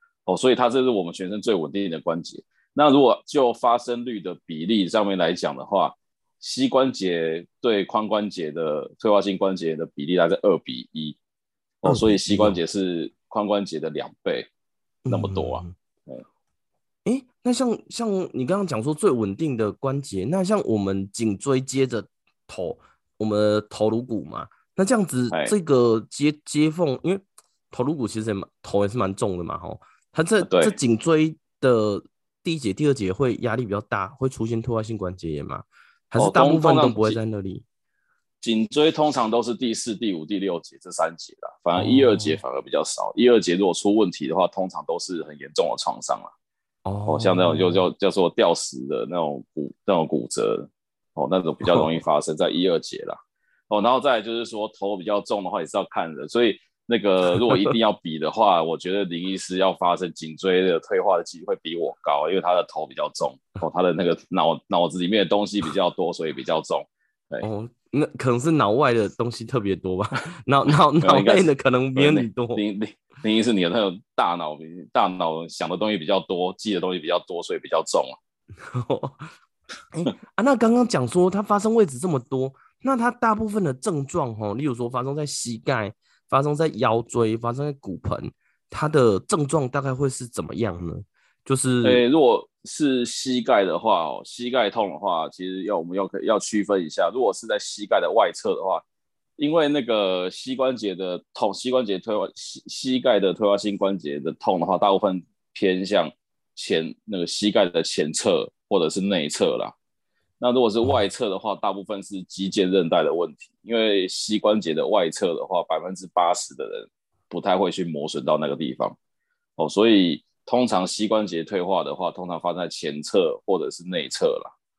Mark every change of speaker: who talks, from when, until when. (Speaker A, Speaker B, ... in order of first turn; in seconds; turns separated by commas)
Speaker A: 0.3-11.2, Speaker A: 11.8-14.5, Speaker B: 11.8-12.6, Speaker B: 15.0-15.7, Speaker A: 15.1-16.2, Speaker B: 17.1-37.6, Speaker A: 30.4-30.8, Speaker A: 36.2-37.2, Speaker A: 38.4-46.3, Speaker B: 41.8-42.4, Speaker B: 46.9-47.8, Speaker A: 47.1-53.2, Speaker A: 53.7-67.5, Speaker B: 67.4-72.6, Speaker A: 71.0-78.2, Speaker B: 78.6-79.3, Speaker B: 79.9-92.0, Speaker A: 91.8-98.8, Speaker A: 99.4-109.7, Speaker A: 110.4-119.0, Speaker A: 119.6-124.5